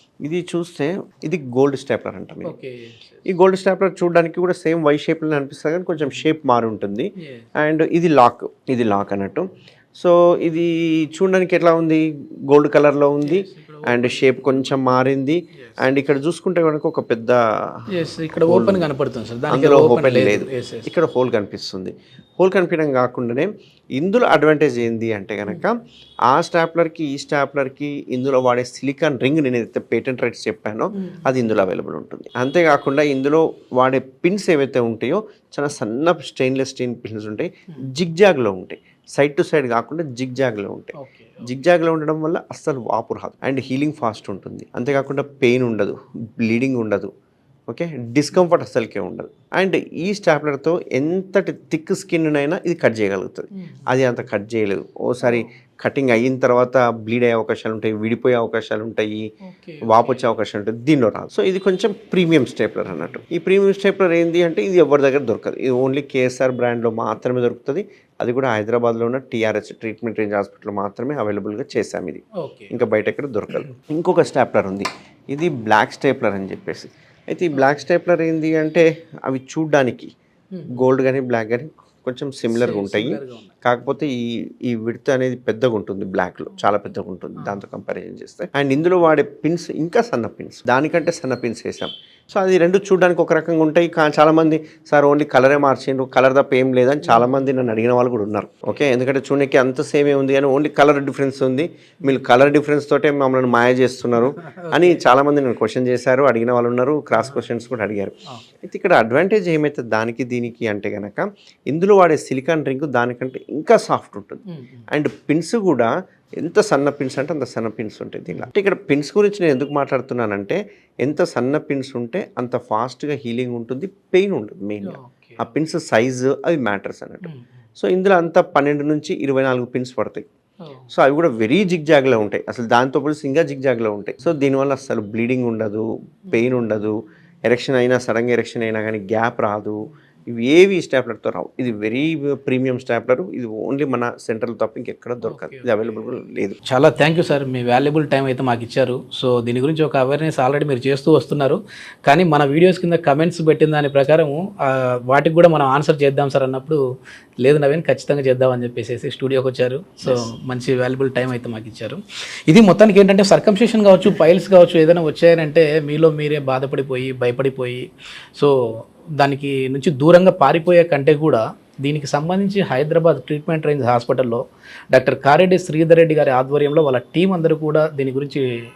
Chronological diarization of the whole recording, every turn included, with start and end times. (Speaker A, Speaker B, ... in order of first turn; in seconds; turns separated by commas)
Speaker A: 0.2-2.5, Speaker B: 2.5-3.3, Speaker A: 3.3-17.8, Speaker B: 7.2-7.5, Speaker B: 13.2-14.8, Speaker B: 17.9-20.9, Speaker A: 18.4-18.9, Speaker A: 19.5-25.8, Speaker A: 26.3-47.1, Speaker B: 30.9-31.6, Speaker B: 41.0-41.5, Speaker A: 47.7-59.2, Speaker B: 53.6-53.9, Speaker B: 55.2-55.5, Speaker B: 59.5-60.3, Speaker A: 59.9-80.1, Speaker B: 72.4-72.7, Speaker B: 80.5-80.8, Speaker A: 80.7-130.2, Speaker B: 82.5-83.5, Speaker B: 97.1-97.5, Speaker B: 104.2-105.1, Speaker B: 114.5-114.8, Speaker B: 124.8-125.5, Speaker B: 127.2-127.5, Speaker B: 130.7-130.9, Speaker A: 130.9-139.8, Speaker A: 140.3-146.6, Speaker B: 145.3-146.0, Speaker B: 146.7-156.8, Speaker B: 157.4-168.5, Speaker B: 169.2-178.4